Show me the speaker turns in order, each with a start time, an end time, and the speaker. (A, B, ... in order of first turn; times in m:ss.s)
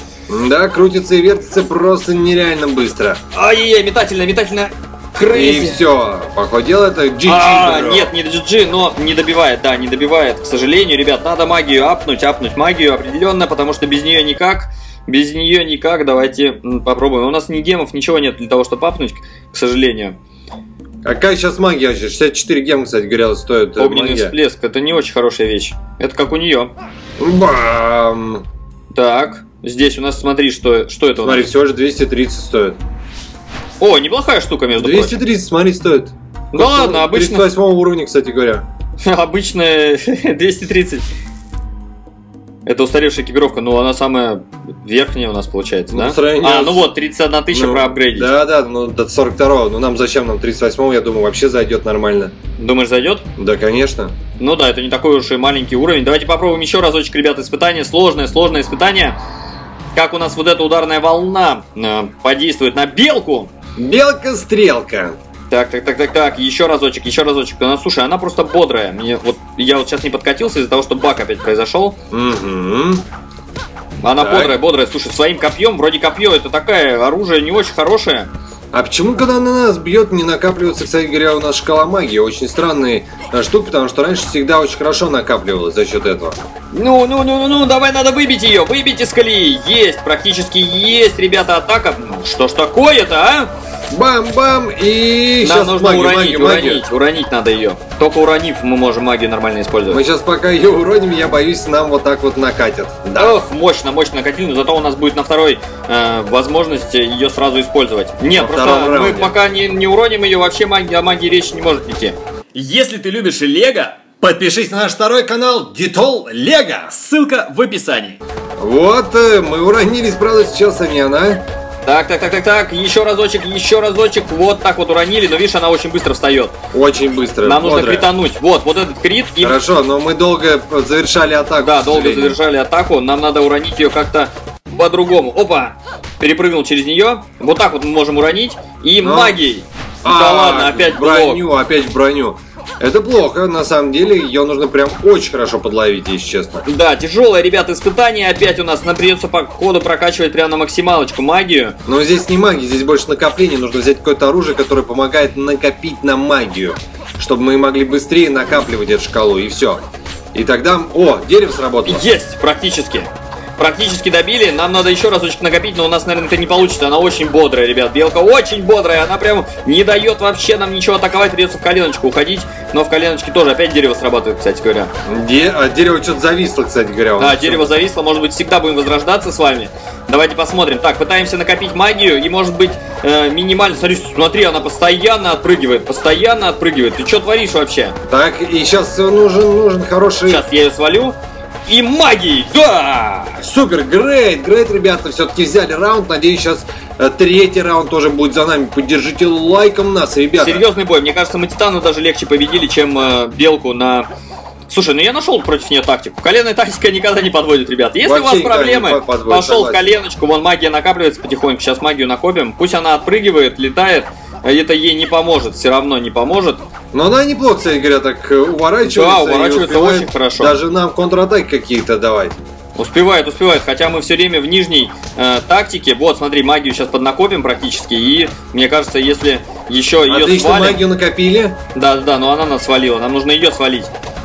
0:00.3-0:03.2 A
0:03.3-0:05.8 B
0:05.2-0:08.1 A
0:07.2-0:20.2 B
0:21.0-0:24.3 A
0:23.8-0:26.7 B
0:27.2-0:28.4 A
0:28.9-0:31.5 B
0:31.2-0:32.8 A
0:33.8-0:35.2 B
0:34.8-0:38.6 A
0:36.5-0:37.5 B
0:39.0-0:41.0 B
0:42.6-0:48.3 B
0:45.9-0:46.9 A
0:47.5-0:52.3 A
0:52.6-0:53.2 B
0:53.4-0:54.1 A
0:54.4-0:59.2 B
0:59.9-1:03.5 B
1:03.8-1:05.2 A
1:05.5-1:12.0 B
1:12.1-1:13.0 A
1:14.0-1:18.3 B
1:14.2-1:14.6 A
1:18.7-1:26.4 A
1:26.7-1:33.5 B
1:33.9-1:36.8 A
1:35.4-1:40.0 B
1:39.9-1:43.4 A
1:43.2-1:54.2 B
1:48.3-1:49.4 A
1:54.2-1:56.9 A
1:56.9-1:58.2 B
1:58.6-2:01.4 A
2:01.8-2:06.5 B
2:06.7-2:08.1 A
2:07.4-2:09.6 B
2:09.4-2:12.4 A
2:11.6-2:21.4 B
2:19.0-2:19.4 A
2:20.0-2:26.6 A
2:26.7-2:31.8 B
2:31.8-2:39.8 A
2:40.3-2:42.0 A
2:41.8-2:54.9 B
2:55.1-2:57.7 A
2:57.2-3:07.9 B
3:08.1-3:10.4 A
3:10.3-3:11.2 B
3:11.7-3:13.4 B
3:13.4-3:20.6 A
3:20.4-3:24.1 B
3:24.7-3:36.6 B
3:28.0-3:29.8 A
3:36.9-3:42.4 A
3:38.8-3:40.6 B
3:42.8-3:50.8 B
3:50.1-3:51.6 A
3:51.7-3:53.9 B